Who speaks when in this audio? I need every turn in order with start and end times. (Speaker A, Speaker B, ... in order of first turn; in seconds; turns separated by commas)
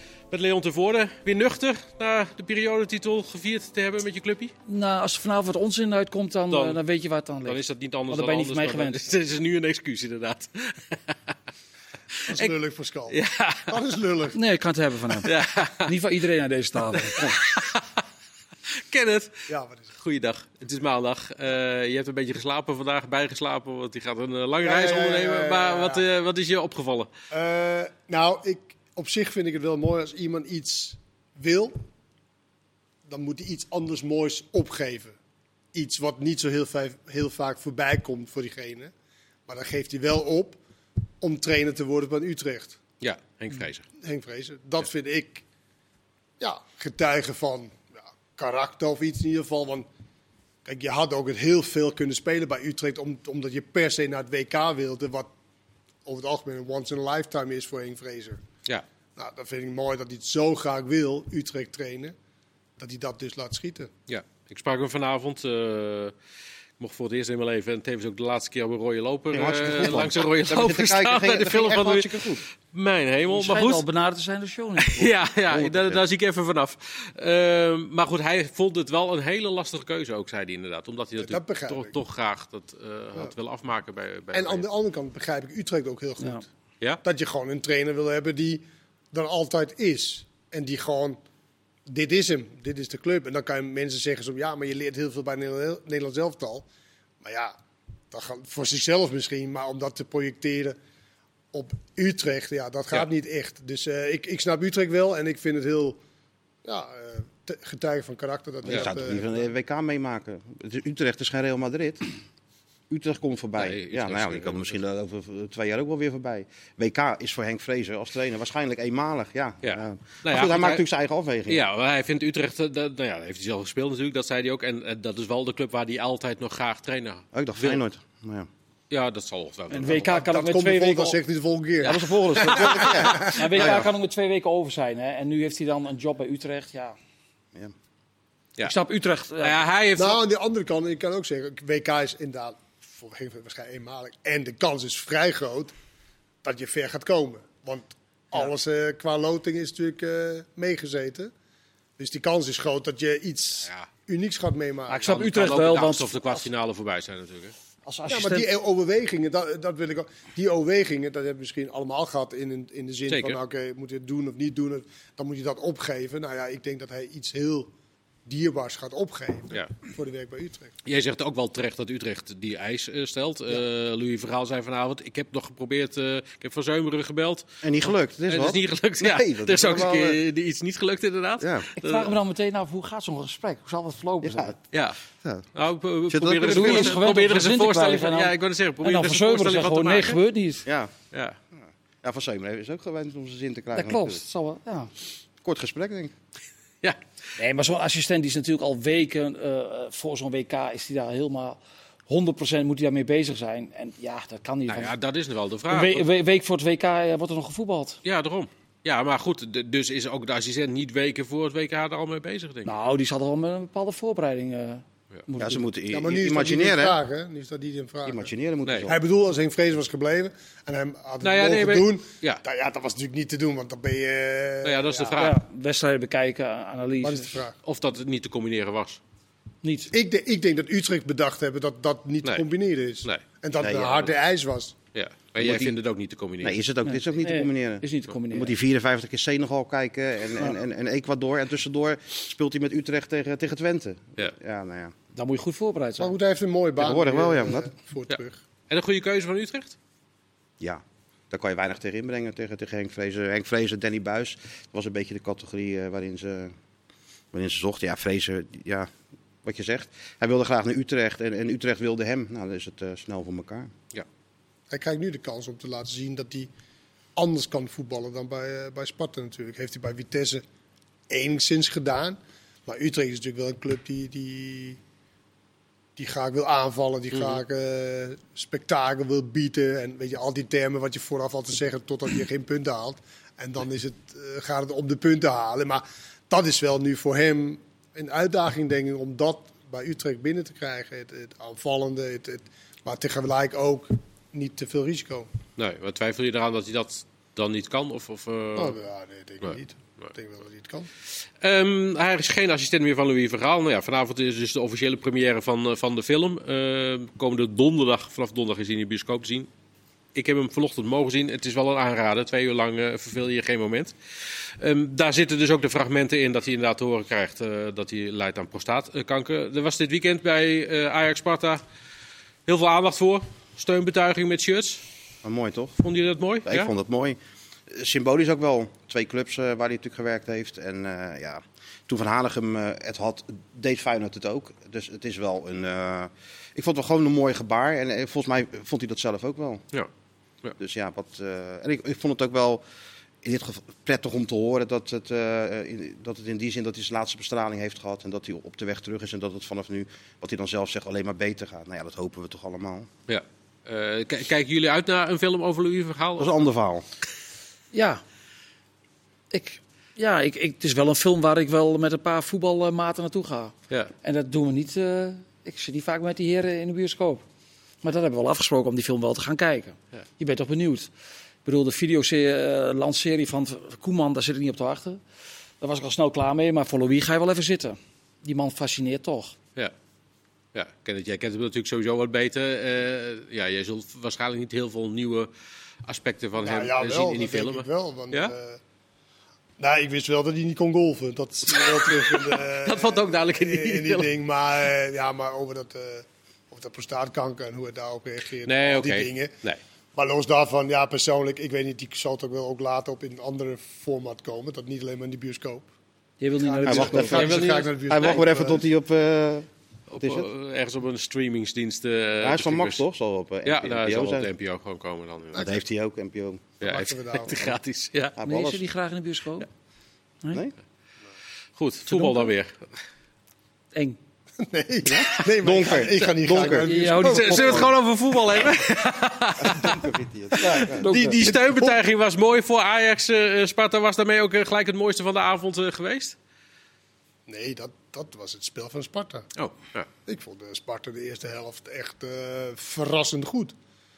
Speaker A: 0.3-4.5, Speaker B: 4.7-7.6, Speaker A: 6.5-6.8, Speaker A: 7.5-11.1, Speaker B: 8.1-9.0, Speaker C: 12.3-13.2, Speaker A: 13.1-13.8, Speaker C: 13.7-14.4, Speaker B: 14.3-17.3, Speaker A: 15.2-16.0, Speaker A: 16.9-17.9, Speaker A: 18.9-19.4, Speaker C: 19.5-19.9, Speaker A: 20.0-27.1, Speaker C: 24.6-26.0, Speaker C: 27.3-31.8, Speaker C: 33.1-35.2, Speaker C: 35.7-38.9, Speaker C: 39.5-40.6, Speaker C: 41.2-42.8, Speaker A: 43.0-43.9, Speaker C: 44.0-45.4, Speaker C: 46.4-49.9, Speaker C: 50.6-55.3, Speaker C: 56.0-58.4, Speaker C: 59.2-62.1, Speaker C: 62.8-63.9, Speaker A: 64.1-66.2, Speaker A: 66.8-73.8, Speaker D: 69.3-72.4, Speaker B: 73.3-75.0, Speaker A: 74.8-84.7, Speaker D: 75.0-76.0, Speaker C: 81.2-82.0, Speaker C: 84.3-86.5, Speaker C: 87.0-91.2, Speaker C: 91.9-96.7, Speaker C: 97.2-97.6, Speaker C: 98.1-100.8, Speaker C: 101.5-106.0, Speaker C: 106.7-109.4, Speaker D: 108.6-112.1, Speaker D: 112.9-121.7, Speaker A: 113.6-114.8, Speaker A: 119.6-120.8, Speaker A: 121.5-127.8, Speaker D: 127.3-128.5, Speaker A: 128.9-130.1, Speaker B: 129.7-131.2, Speaker C: 129.9-133.4, Speaker B: 131.8-137.0, Speaker A: 132.4-133.1, Speaker D: 132.7-133.9, Speaker B: 138.6-139.6, Speaker A: 139.4-140.2, Speaker C: 140.0-145.7, Speaker C: 146.4-151.3, Speaker C: 152.0-155.2, Speaker B: 154.9-156.5, Speaker A: 154.9-157.5, Speaker B: 157.9-158.5, Speaker C: 158.1-167.7, Speaker A: 163.1-163.4, Speaker C: 168.3-170.7, Speaker A: 170.8-177.6, Speaker D: 177.6-180.2, Speaker A: 178.3-182.2, Speaker D: 181.4-181.7, Speaker B: 181.8-184.5, Speaker D: 184.2-184.6, Speaker A: 184.7-185.0, Speaker A: 185.6-190.2, Speaker D: 186.1-187.0, Speaker B: 186.4-190.7, Speaker D: 190.7-190.9, Speaker A: 191.1-191.4, Speaker D: 191.6-194.2, Speaker B: 193.7-194.9, Speaker D: 195.4-196.1, Speaker B: 197.4-204.9, Speaker A: 204.7-206.0, Speaker B: 205.7-208.0, Speaker A: 208.0-212.7, Speaker B: 212.7-215.7, Speaker D: 215.4-217.0, Speaker C: 215.9-218.3, Speaker D: 218.1-219.0, Speaker A: 218.7-218.9, Speaker C: 218.9-225.2, Speaker A: 221.2-222.4, Speaker A: 224.6-225.4, Speaker B: 225.2-227.4, Speaker C: 227.0-227.6, Speaker A: 227.6-229.0, Speaker B: 229.6-229.9, Speaker C: 229.9-234.8, Speaker D: 233.6-234.1, Speaker A: 234.9-236.6, Speaker D: 235.4-235.8, Speaker D: 236.4-244.9, Speaker B: 236.8-238.6, Speaker B: 245.1-246.1, Speaker C: 246.0-248.4, Speaker D: 246.8-247.7, Speaker A: 248.7-249.8, Speaker D: 250.6-256.5, Speaker D: 257.3-258.9, Speaker D: 259.4-263.7, Speaker C: 264.7-266.5, Speaker C: 267.2-270.4, Speaker C: 271.1-274.8, Speaker C: 276.0-295.3, Speaker A: 295.6-298.8, Speaker C: 298.6-300.9, Speaker A: 301.4-309.5, Speaker A: 310.1-313.9, Speaker A: 314.6-321.6, Speaker A: 322.5-324.8, Speaker D: 325.2-325.8, Speaker A: 325.8-326.7, Speaker D: 326.5-327.2, Speaker D: 327.7-339.6, Speaker D: 340.6-342.6, Speaker D: 343.2-352.9, Speaker A: 353.1-356.4, Speaker D: 356.2-356.9, Speaker B: 357.7-358.0, Speaker B: 359.3-367.2, Speaker B: 367.8-370.9, Speaker B: 371.4-375.0, Speaker B: 375.6-379.4, Speaker A: 380.5-385.3, Speaker A: 385.9-388.3, Speaker C: 386.4-388.6, Speaker C: 389.6-399.3, Speaker A: 391.5-394.1, Speaker A: 398.4-399.6, Speaker C: 399.9-405.7, Speaker B: 406.2-407.4, Speaker C: 406.4-408.6, Speaker D: 406.6-409.5, Speaker A: 406.9-408.2, Speaker A: 409.9-412.8, Speaker D: 410.0-410.3, Speaker D: 412.2-414.3, Speaker A: 413.4-415.4, Speaker D: 415.4-416.6, Speaker A: 416.6-418.2, Speaker C: 416.6-417.6, Speaker D: 418.2-418.6, Speaker B: 418.2-419.5, Speaker A: 421.6-422.6, Speaker B: 421.9-422.2, Speaker C: 424.4-427.7, Speaker D: 424.8-427.7, Speaker B: 426.7-427.6, Speaker A: 426.9-429.8, Speaker D: 429.4-430.9, Speaker A: 430.4-436.1, Speaker B: 430.4-431.3, Speaker C: 431.2-431.8, Speaker C: 437.3-439.3, Speaker A: 439.4-439.9, Speaker C: 440.1-443.6